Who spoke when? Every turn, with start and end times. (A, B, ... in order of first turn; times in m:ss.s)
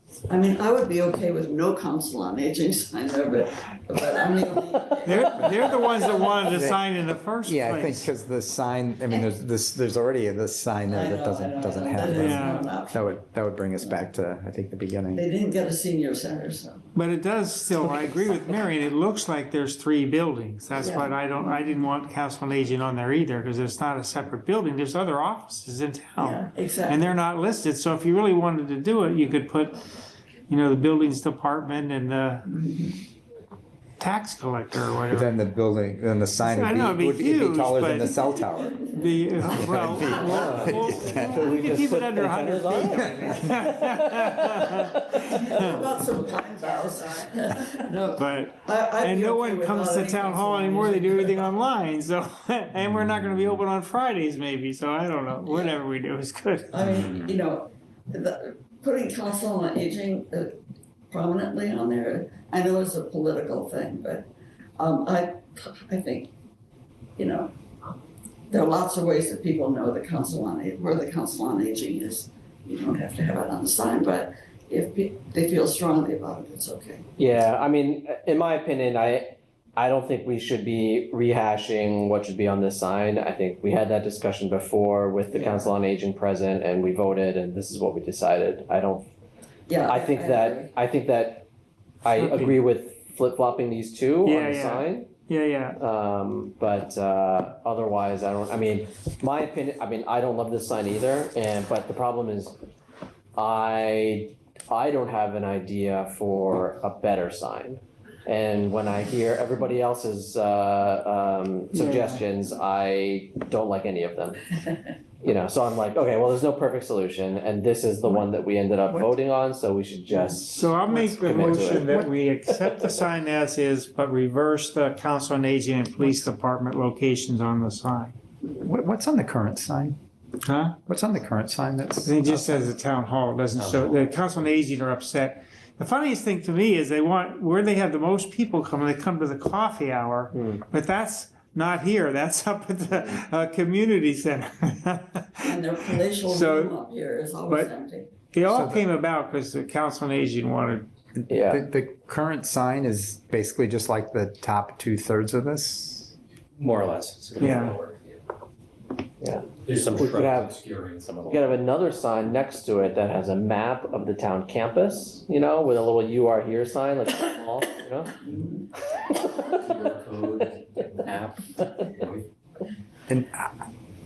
0:00.3-0:06.5 A
0:05.0-0:08.0 B
0:06.5-0:06.8 C
0:07.4-0:15.2 C
0:10.9-0:13.0 A
0:12.1-0:12.6 B
0:15.1-0:16.8 A
0:16.9-0:29.8 B
0:20.8-0:21.8 A
0:26.2-0:27.1 A
0:30.5-0:32.5 B
0:32.5-0:33.0 A
0:34.0-0:35.3 B
0:35.1-0:38.8 C
0:36.4-0:38.2 B
0:38.8-0:45.8 B
0:39.4-0:41.1 A
0:39.5-0:41.9 C
0:40.4-0:45.7 D
0:42.9-0:43.3 C
0:45.1-0:51.5 A
0:48.2-0:56.8 B
0:53.0-0:53.6 E
0:55.4-0:55.8 A
0:56.7-1:00.6 A
0:56.8-0:57.4 E
1:01.1-1:06.3 A
1:07.2-1:07.5 A
1:08.5-1:17.0 A
1:17.2-1:29.1 D
1:25.3-1:25.7 A
1:29.7-1:30.7 A
1:29.9-1:31.5 D
1:32.0-1:35.1 D
1:32.2-1:32.5 B
1:34.2-1:35.8 B
1:35.8-1:42.6 D
1:43.4-1:54.6 D
1:51.7-1:52.2 B
1:55.2-2:02.0 D
2:00.4-2:08.1 B
2:01.7-2:02.1 C
2:02.5-2:02.8 D
2:08.4-2:10.0 C
2:10.4-2:10.8 B
2:10.8-2:12.7 C
2:12.0-2:26.8 B
2:13.6-2:14.1 E
2:20.3-2:20.6 D
2:25.4-2:28.1 A
2:28.3-2:30.9 B
2:28.5-2:28.8 C
2:31.3-2:31.6 D
2:31.3-2:36.1 C
2:36.6-2:38.2 E
2:37.4-2:37.8 B
2:39.2-2:40.6 D
2:39.6-2:41.6 E
2:41.3-2:48.1 D
2:48.3-2:48.7 A
2:49.1-2:52.2 E
2:53.1-2:53.6 C